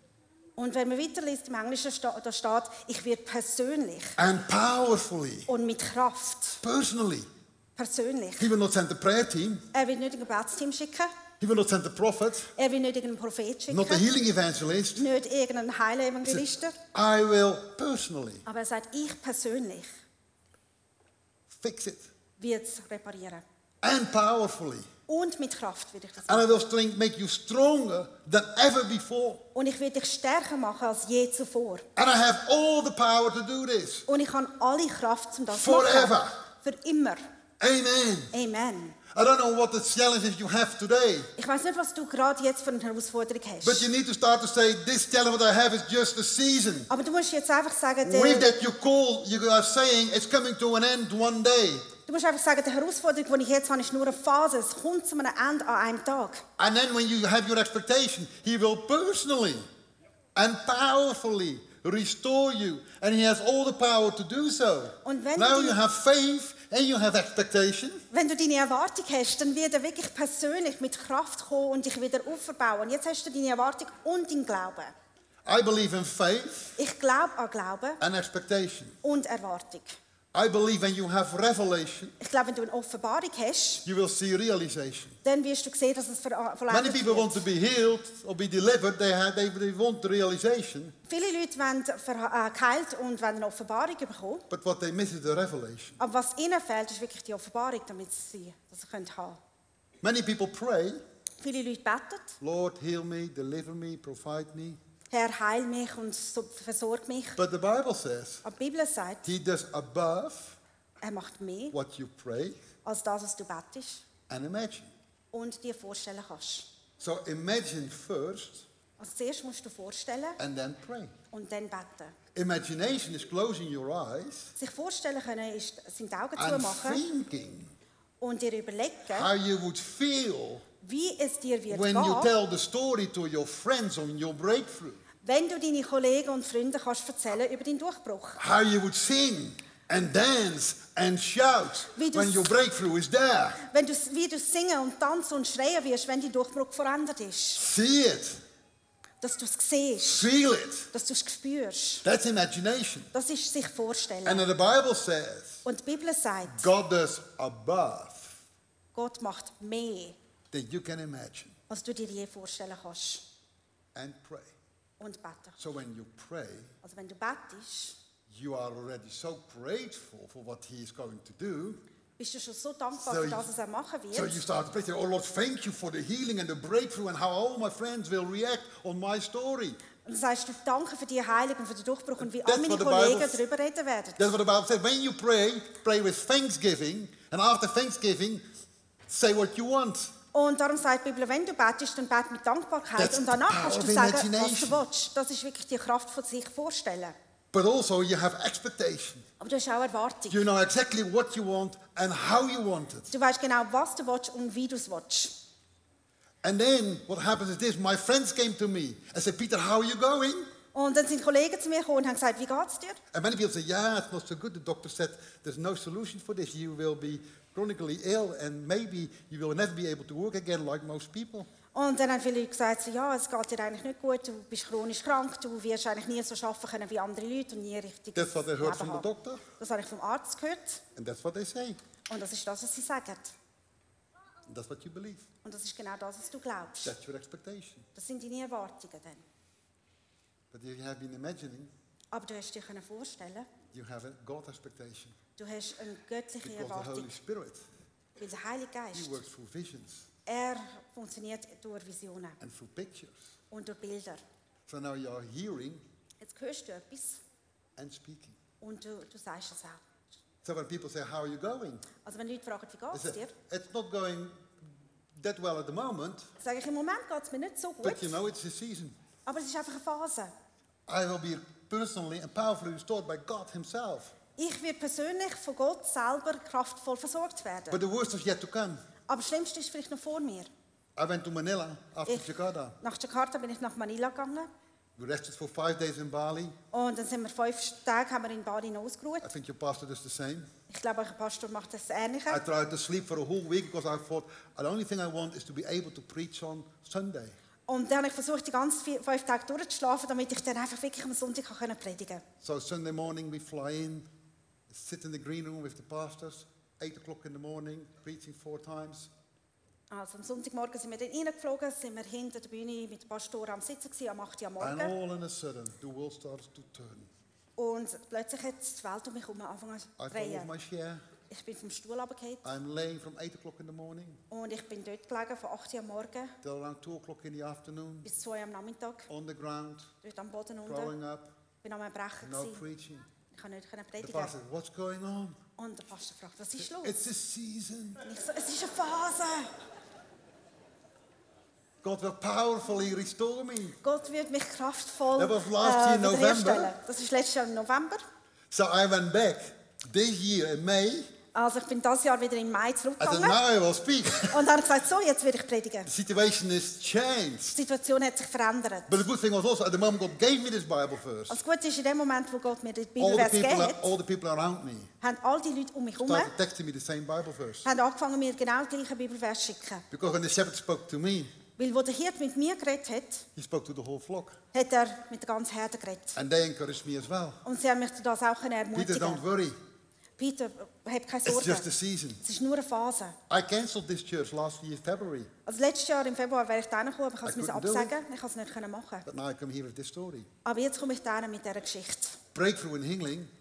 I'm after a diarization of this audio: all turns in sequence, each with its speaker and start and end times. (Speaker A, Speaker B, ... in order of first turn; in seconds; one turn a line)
Speaker A: 0.6-4.2
Speaker B: 4.2-5.5
Speaker A: 5.5-6.6
Speaker B: 6.6-7.3
Speaker A: 7.8-8.5
Speaker B: 8.4-9.7
Speaker A: 9.7-11.1
Speaker B: 11.4-12.5
Speaker A: 12.6-14.0
Speaker B: 13.7-15.1
Speaker A: 14.9-16.8
Speaker B: 16.3-18.4
Speaker A: 18.4-19.9
Speaker B: 21.5-22.1
Speaker A: 22.4-23.4
Speaker B: 23.8-24.9
Speaker A: 25.1-26.7
Speaker B: 26.2-29.4
Speaker A: 29.5-31.9
Speaker B: 31.9-34.0
Speaker A: 34.1-37.2
Speaker B: 35.5-36.3
Speaker B: 37.6-38.3
Speaker A: 38.3-39.0
Speaker B: 39.1-41.3
Speaker A: 41.4-43.9
Speaker B: 43.6-46.9
Speaker A: 46.9-48.5
Speaker B: 48.0-51.9
Speaker A: 52.1-56.4
Speaker B: 56.6-59.6
Speaker B: 60.3-68.0
Speaker A: 65.0-65.8
Speaker A: 68.1-74.9
Speaker B: 75.4-76.8
Speaker A: 76.8-78.0
Speaker B: 78.0-79.0
Speaker A: 79.0-80.0
Speaker B: 80.3-82.2
Speaker A: 82.2-83.8
Speaker B: 83.8-85.2
Speaker A: 85.2-87.4
Speaker B: 86.7-90.9
Speaker A: 91.1-94.5
Speaker B: 94.5-96.0
Speaker A: 96.0-99.4
Speaker B: 100.0-101.0
Speaker A: 101.4-102.4
Speaker B: 102.4-104.8
Speaker A: 105.1-107.4
Speaker B: 107.3-108.4
Speaker A: 108.4-109.3
Speaker B: 109.2-110.6
Speaker A: 111.0-111.7
Speaker B: 111.7-112.6
Speaker A: 112.8-114.0
Speaker B: 114.3-114.9
Speaker A: 115.3-116.7
Speaker B: 117.0-118.7
Speaker A: 119.0-120.4
Speaker B: 120.4-121.1
Speaker A: 121.3-122.2
Speaker B: 122.3-124.5
Speaker A: 124.6-127.0
Speaker B: 126.3-127.7
Speaker A: 128.2-129.3
Speaker B: 129.1-130.6
Speaker A: 130.8-132.3
Speaker B: 131.7-135.0
Speaker A: 135.2-138.4
Speaker B: 138.4-143.6
Speaker A: 141.9-142.5
Speaker A: 143.6-147.6
Speaker B: 147.6-148.4
Speaker A: 149.2-150.3
Speaker B: 150.0-150.9
Speaker A: 150.9-152.0
Speaker B: 152.0-153.1
Speaker A: 153.1-154.4
Speaker B: 154.2-155.6
Speaker A: 155.6-156.7
Speaker B: 156.5-158.4
Speaker A: 158.9-160.2
Speaker B: 160.5-161.6
Speaker A: 161.7-163.2
Speaker B: 163.9-164.5
Speaker A: 165.0-165.6
Speaker B: 165.6-166.7
Speaker A: 166.8-168.0
Speaker B: 168.3-171.8
Speaker A: 172.2-174.4
Speaker B: 173.0-173.5
Speaker B: 174.1-179.8
Speaker A: 180.0-184.2
Speaker B: 182.2-183.4
Speaker B: 184.2-188.4
Speaker B: 189.1-190.1
Speaker A: 190.3-197.1
Speaker B: 193.0-194.8
Speaker B: 197.5-199.2
Speaker A: 199.4-200.4
Speaker B: 200.3-203.1
Speaker A: 203.1-205.3
Speaker B: 206.4-210.5
Speaker A: 210.7-213.0
Speaker B: 213.1-221.5
Speaker A: 221.7-230.8
Speaker B: 228.1-229.4
Speaker B: 230.9-231.8
Speaker A: 232.1-233.3
Speaker B: 234.5-235.3
Speaker A: 235.4-236.9
Speaker B: 236.8-237.8
Speaker A: 237.9-239.2
Speaker B: 240.5-241.7
Speaker A: 242.1-243.5
Speaker B: 243.7-245.2
Speaker A: 245.4-247.1
Speaker B: 246.4-247.6
Speaker A: 248.2-249.2
Speaker B: 248.9-250.1
Speaker A: 250.2-252.4
Speaker B: 252.4-253.2
Speaker A: 253.5-254.2
Speaker B: 254.7-255.8
Speaker A: 256.2-257.2
Speaker B: 257.8-258.4
Speaker A: 258.6-259.8
Speaker B: 260.4-261.9
Speaker A: 262.0-263.3
Speaker B: 262.9-264.5
Speaker B: 265.1-266.3
Speaker A: 266.4-268.2
Speaker B: 267.8-269.0
Speaker A: 269.2-270.3
Speaker B: 270.9-274.1
Speaker A: 274.4-277.8
Speaker B: 277.7-278.8
Speaker A: 279.1-280.5
Speaker B: 280.9-282.8
Speaker A: 282.8-284.5
Speaker B: 285.0-286.6
Speaker A: 286.7-289.3
Speaker B: 289.2-290.5
Speaker A: 290.7-292.4
Speaker B: 292.3-297.4
Speaker A: 297.7-302.2
Speaker B: 302.4-304.1
Speaker B: 304.7-309.1
Speaker A: 309.9-314.9
Speaker B: 314.6-317.1
Speaker A: 317.6-320.5
Speaker B: 320.0-321.0
Speaker A: 321.3-322.4
Speaker B: 322.4-324.2
Speaker A: 324.3-326.4
Speaker B: 326.4-328.1
Speaker A: 328.0-329.1
Speaker B: 329.1-329.9
Speaker A: 330.0-330.9
Speaker B: 330.6-331.3
Speaker A: 331.6-332.6
Speaker B: 332.2-333.1
Speaker A: 333.3-334.3
Speaker B: 334.0-335.4
Speaker A: 335.6-337.1
Speaker B: 336.6-338.0
Speaker A: 338.0-339.5
Speaker B: 341.8-343.8
Speaker A: 343.8-348.0
Speaker B: 345.1-346.7
Speaker B: 348.5-351.1
Speaker A: 351.3-353.4
Speaker B: 353.0-354.4
Speaker A: 354.3-355.9
Speaker B: 355.9-357.6
Speaker A: 357.5-359.0
Speaker B: 358.9-361.4
Speaker A: 361.3-363.9
Speaker B: 363.0-364.9
Speaker A: 365.0-366.3
Speaker B: 366.0-367.7
Speaker A: 367.6-369.8
Speaker B: 369.9-371.3
Speaker A: 371.6-373.3
Speaker B: 373.4-374.4
Speaker A: 374.5-376.2
Speaker B: 376.1-377.4
Speaker A: 377.4-379.2
Speaker B: 378.7-379.6
Speaker A: 380.2-381.7
Speaker B: 381.2-382.2
Speaker A: 382.2-383.2
Speaker B: 383.3-385.3
Speaker A: 385.4-389.1
Speaker B: 387.2-387.9
Speaker B: 389.1-390.3
Speaker A: 390.4-392.2
Speaker B: 392.3-393.3